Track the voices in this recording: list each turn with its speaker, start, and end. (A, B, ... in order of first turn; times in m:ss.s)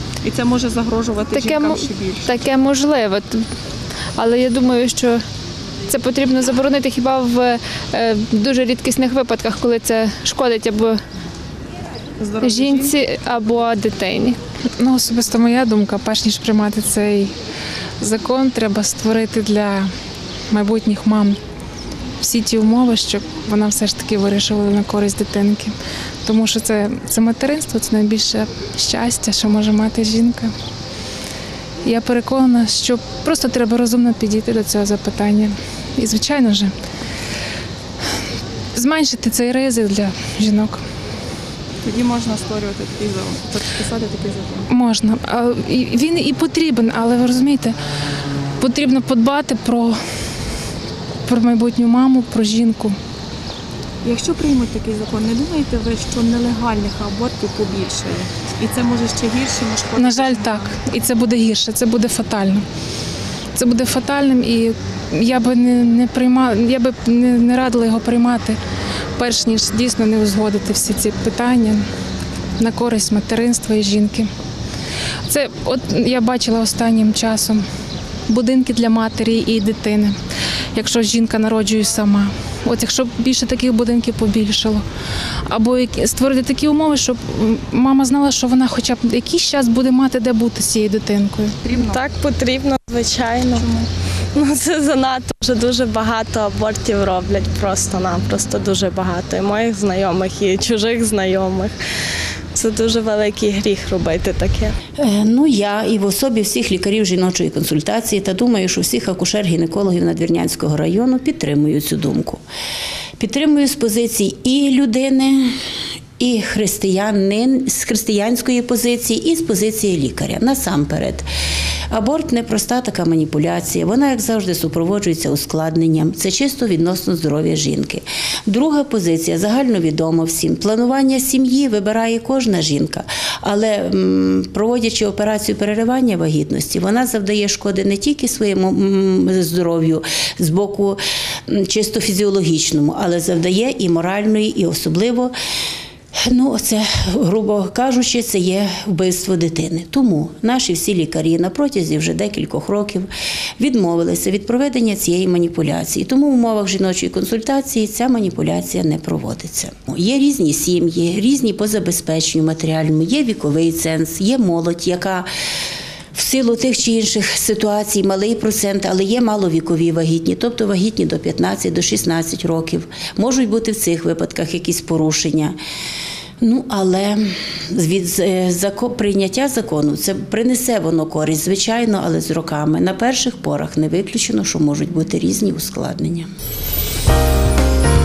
0:00.2-0:02.3 A
0:01.3-0:03.4 B
0:04.2-0:05.2 B
0:05.9-0:11.0 B
0:12.3-0:12.8 A
0:12.4-0:14.4 B
0:14.8-0:17.3 C
0:18.0-0:19.9 C
0:20.5-0:21.4 C
0:22.2-0:30.5 C
0:31.8-0:36.7 C
0:38.7-0:40.8 C
0:41.8-0:44.5 A
0:44.7-0:47.8 C
0:48.6-0:50.0 C
0:51.2-0:53.0 C
0:54.0-1:00.6 A
0:59.9-1:02.6 C
1:03.5-1:08.6 C
1:09.2-1:11.8 C
1:12.6-1:14.3 C
1:15.2-1:17.6 C
1:18.3-1:20.2 C
1:20.7-1:24.8 C
1:25.4-1:31.5 C
1:31.7-1:32.0 A
1:31.8-1:33.7 D
1:34.3-1:41.7 D
1:42.6-1:44.7 D
1:45.0-1:52.4 E
1:53.2-1:55.5 E
1:56.2-2:01.3 E
2:01.9-2:25.3 E
2:26.3-2:45.3 E
2:46.1-2:55.6 E
2:56.4-3:06.3 E